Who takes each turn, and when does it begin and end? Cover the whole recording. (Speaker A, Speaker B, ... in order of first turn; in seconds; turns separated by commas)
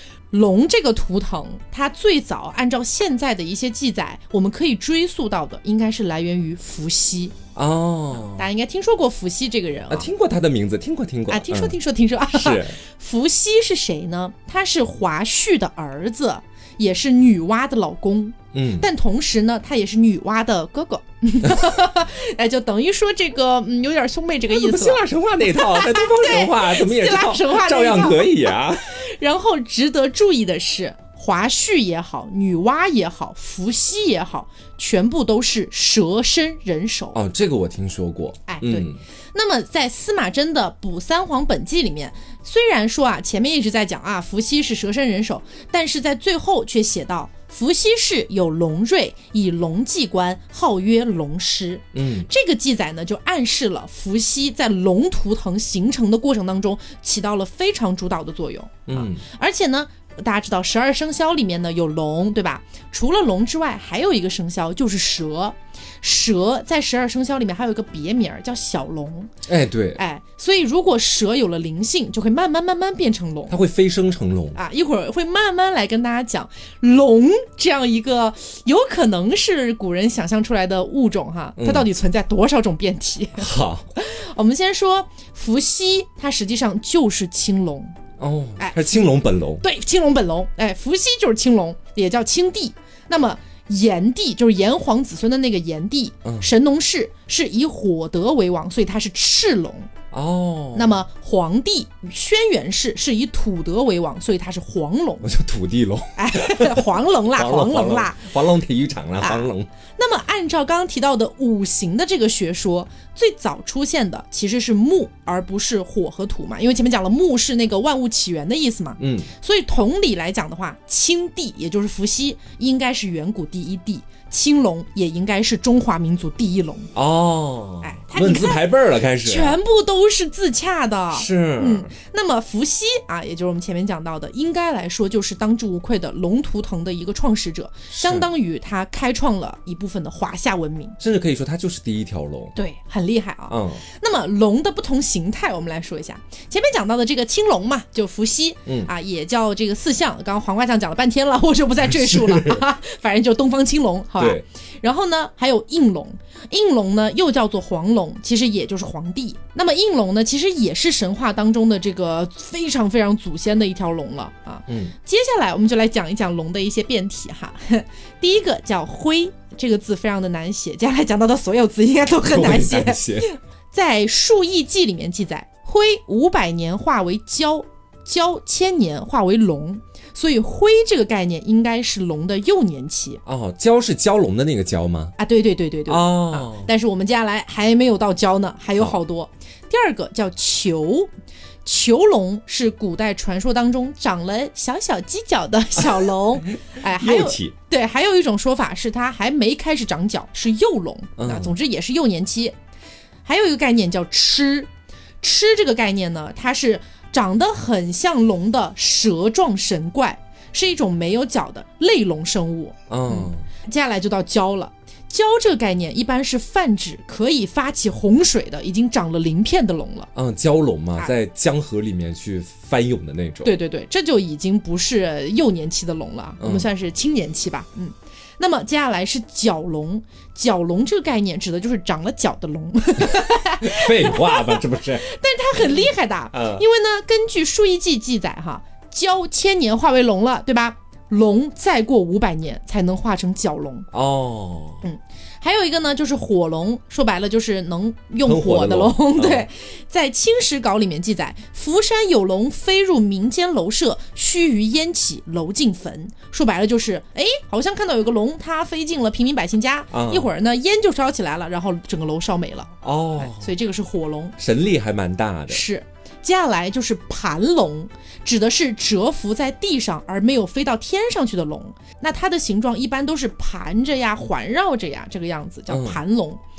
Speaker A: 0.3-7.3, Speaker B: 7.5-8.5, Speaker A: 8.2-10.1, Speaker B: 9.9-11.8, Speaker A: 11.3-37.2, Speaker B: 12.3-12.8, Speaker B: 18.5-18.9, Speaker B: 24.5-29.0, Speaker B: 37.1-39.0, Speaker A: 38.5-69.3, Speaker B: 51.9-52.3, Speaker B: 58.9-59.2, Speaker B: 69.5-70.0, Speaker A: 70.0-73.5, Speaker B: 73.5-74.6, Speaker A: 74.5-88.0, Speaker B: 81.6-81.9, Speaker B: 83.4-83.9, Speaker B: 88.2-89.6, Speaker A: 88.6-99.9, Speaker B: 96.2-96.5, Speaker B: 100.1-101.0, Speaker A: 100.7-105.3, Speaker B: 105.2-109.7, Speaker A: 106.2-108.3, Speaker A: 109.2-126.9, Speaker B: 119.0-119.3, Speaker B: 126.9-129.6, Speaker A: 127.8-141.0, Speaker B: 131.1-131.9, Speaker B: 137.9-138.3, Speaker B: 141.0-142.5, Speaker A: 142.5-183.2, Speaker B: 143.5-143.8, Speaker B: 151.9-152.6, Speaker B: 154.2-154.4, Speaker B: 164.7-164.9, Speaker B: 172.2-173.3, Speaker B: 183.2-185.2, Speaker A: 185.2-191.1, Speaker B: 185.9-186.7, Speaker A: 191.6-202.5, Speaker B: 196.8-197.5, Speaker B: 201.2-201.6, Speaker A: 203.2-204.7, Speaker A: 205.2-220.1, Speaker B: 212.9-213.4, Speaker B: 220.1-223.5, Speaker A: 223.4-243.9, Speaker B: 226.4-226.7, Speaker B: 233.1-235.8, Speaker B: 236.3-236.6, Speaker B: 243.9-244.8, Speaker A: 244.8-264.4, Speaker B: 248.2-249.5, Speaker B: 259.9-260.3, Speaker B: 262.8-263.5, Speaker B: 264.4-265.6, Speaker A: 265.5-276.4, Speaker B: 275.7-276.0